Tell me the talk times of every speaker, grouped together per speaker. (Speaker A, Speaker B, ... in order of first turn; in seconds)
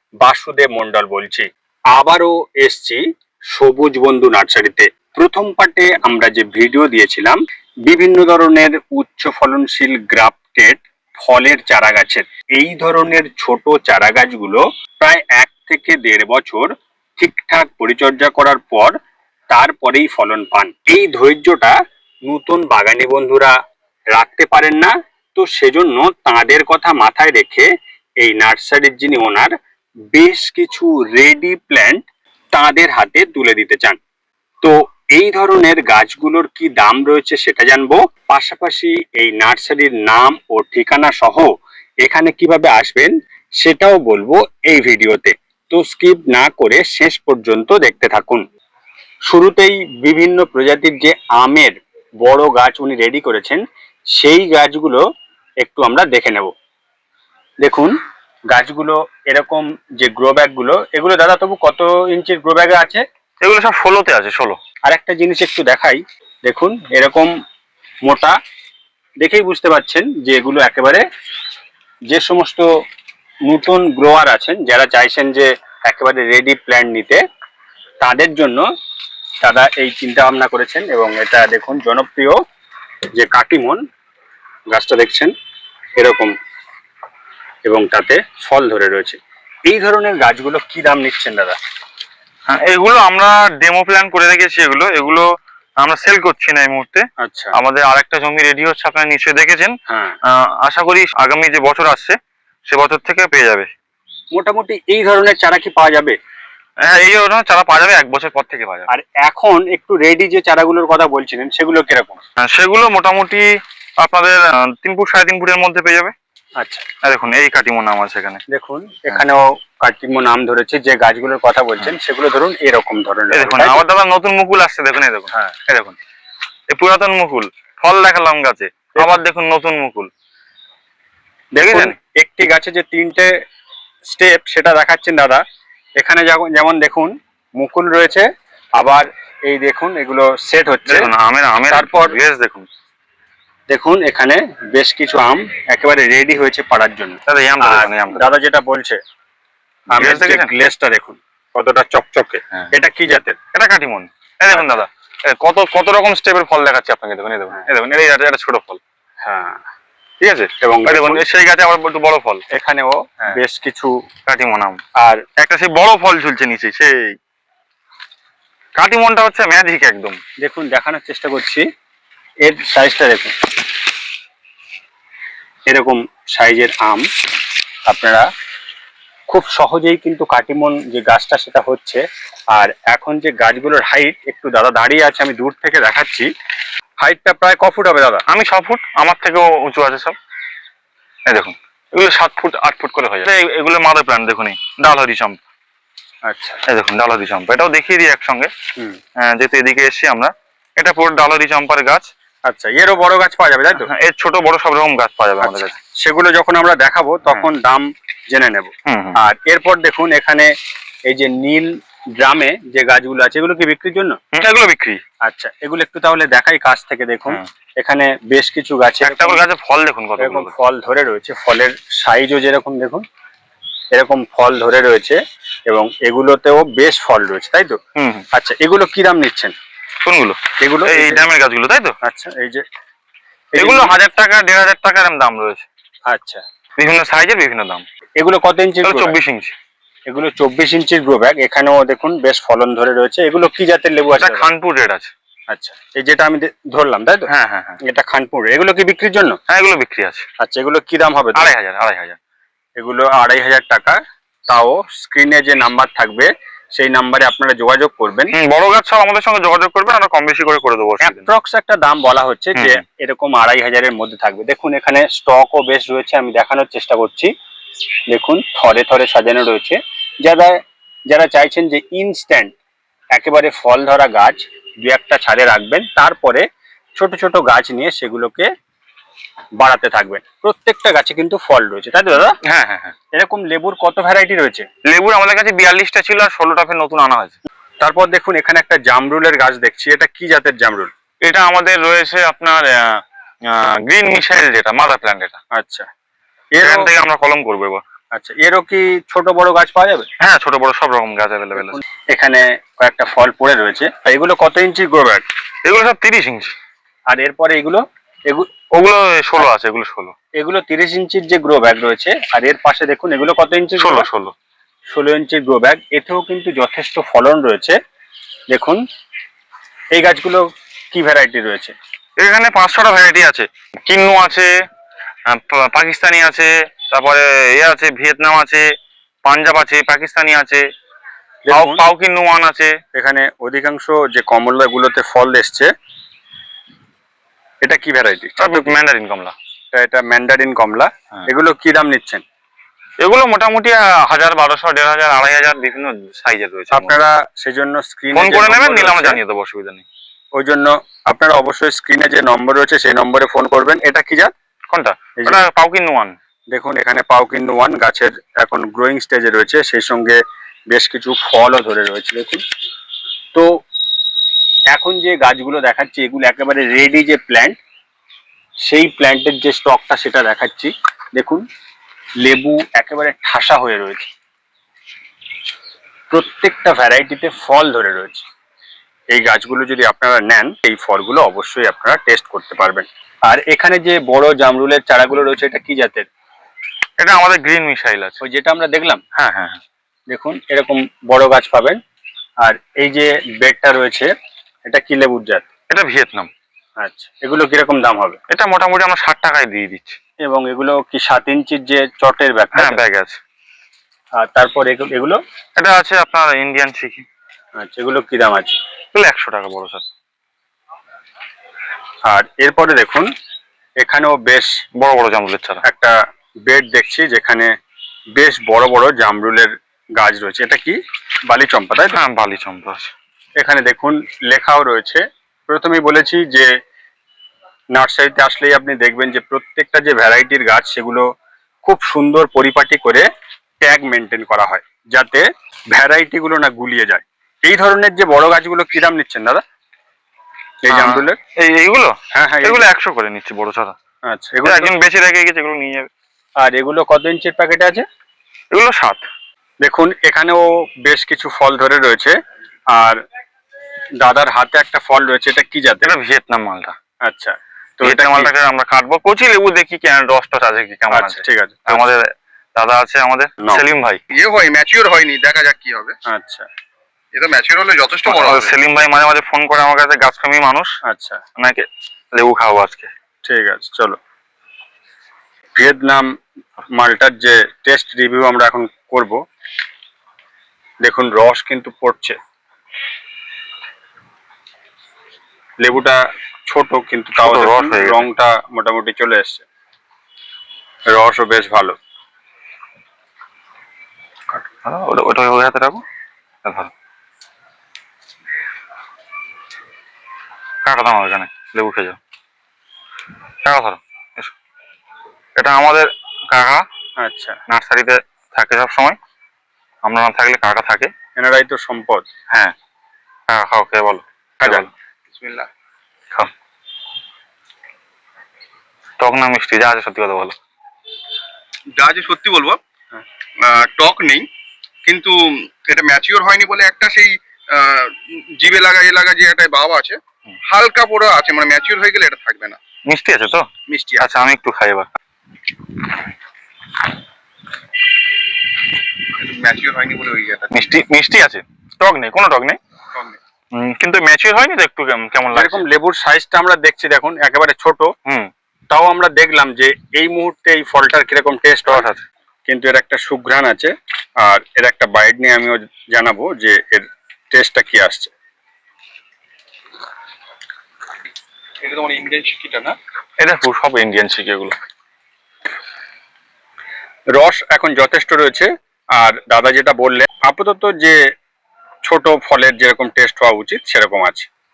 Speaker A: 0.2-3.0, 3.5-18.9, 19.5-23.6, 24.1-27.7, 28.2-29.5, 30.1-34.0, 34.6-41.5, 42.0-48.4, 49.3-53.6, 54.1-55.0, 55.6-56.5, 57.6-58.0, 58.5-63.0, 64.8-67.3, 68.0-68.3, 69.2-71.0, 72.1-72.7, 73.5-77.2, 78.0-78.6, 79.4-82.3, 83.1-83.8, 84.7-85.3, 86.0-86.3, 87.6-91.6, 97.2-97.5, 99.9-100.2, 104.3-106.2, 108.9-112.2, 116.6-116.8, 118.5-123.8, 131.5-133.3, 134.1-135.4, 136.0-141.1, 141.7-142.2, 143.7-149.0, 149.9-153.3, 154.5-154.8, 159.2-159.6, 160.6-161.2, 162.5-163.9, 165.0-165.2, 170.4-171.6, 172.4-173.3, 175.7-177.1, 177.9-178.2, 179.3-186.3, 187.0-188.2, 196.2-196.6, 202.5-203.9, 205.4-210.5, 211.1-214.2, 215.2-219.4, 220.2-223.0, 223.9-227.8, 228.3-229.5, 230.6-231.2, 232.0-232.6, 233.5-233.9, 236.1-236.4, 238.2-239.1, 240.1-244.5, 245.5-247.3, 247.8-249.4, 250.4-251.5, 252.8-258.3, 261.0-267.3, 268.1-272.6, 273.1-276.4, 276.9-278.5, 279.6-282.4, 283.1-284.6, 287.8-290.9, 295.5-295.9, 296.5-296.9, 298.1-300.1, 301.5-305.2, 307.1-308.5, 310.4-314.1, 314.9-317.8, 318.5-318.8, 319.9-321.7, 331.4-331.8, 332.9-335.7, 337.6-338.7, 339.7-342.2, 346.7-349.2, 350.4-354.3, 356.5-360.2, 360.7-362.4, 363.3-363.6, 364.7-367.6, 368.6-371.4, 372.2-374.1, 376.1-378.2, 379.1-386.1, 388.2-389.0, 390.1-391.8, 392.4-394.1, 394.7-395.4, 396.8-398.2, 400.2-402.8, 404.2-405.2, 407.6-408.5, 412.1-413.1, 413.8-414.5, 415.6-417.5, 418.1-421.9, 423.4-426.5, 427.7-431.0, 431.6-433.1, 433.6-439.4, 440.6-441.2, 442.1-442.6, 444.1-444.7, 446.4-447.8, 449.6-452.1, 452.7-453.0, 454.0-455.9, 457.0-458.3, 460.9-461.8, 466.1-466.5, 470.8-471.2, 473.2-474.0, 475.6-476.1, 476.7-479.2, 480.8-482.2, 485.6-489.4, 490.9-491.7, 507.0-507.4, 511.2-512.0, 514.4-514.7, 545.3-547.9, 548.7-551.9, 552.5-558.1, 567.1-571.0, 571.8-574.3
Speaker B: 63.4-64.6, 92.5-95.2, 95.8-102.2, 102.7-103.7, 106.8-108.9, 112.4-116.1, 117.0-118.4, 123.3-126.0, 126.7-130.1, 131.6-132.0, 140.9-142.7, 147.3-148.3, 149.9-150.5, 153.5-158.8, 160.2-162.4, 164.2-164.8, 165.4-167.2, 168.8-170.2, 188.3-190.2, 191.3-195.4, 196.7-198.5, 199.2-202.1, 203.8-205.7, 208.8-209.2, 214.3-215.0, 219.0-220.5, 227.9-228.2, 230.0-231.9, 233.6-235.7, 236.8-237.8, 238.8-239.5, 244.2-245.1, 247.3-247.8, 249.5-250.2, 251.3-252.2, 258.3-261.3, 262.6-262.8, 282.4-282.9, 284.9-287.4, 291.2-295.4, 296.6-297.8, 300.2-301.8, 305.6-306.5, 308.7-310.1, 313.8-314.3, 322.2-324.5, 325.2-328.6, 329.2-330.6, 331.5-332.7, 338.4-339.3, 343.0-346.9, 348.1-349.8, 354.7-356.1, 387.0-388.2, 389.1-389.6, 395.7-396.3, 398.3-400.0, 402.5-403.2, 405.6-407.0, 408.9-409.8, 414.7-415.6, 421.9-422.9, 440.7-443.7, 444.4-445.9, 448.5-449.0, 455.8-456.7, 457.8-464.0, 468.1-470.8, 471.4-472.9, 487.2-488.0, 494.6-495.8, 496.4-496.7, 500.6-502.0, 503.4-504.3, 505.4-506.6, 507.5-508.9, 509.8-510.9, 513.3-514.7, 519.0-520.3, 532.9-533.5, 534.0-534.9, 540.5-542.6, 543.5-545.6, 548.0-548.3, 551.7-552.0, 563.2-564.5
Speaker C: 464.1-465.9, 467.1-468.5, 515.1-515.5, 521.8-522.6, 523.4-524.3, 524.8-532.6, 533.7-534.1, 539.0-540.6, 561.6-562.8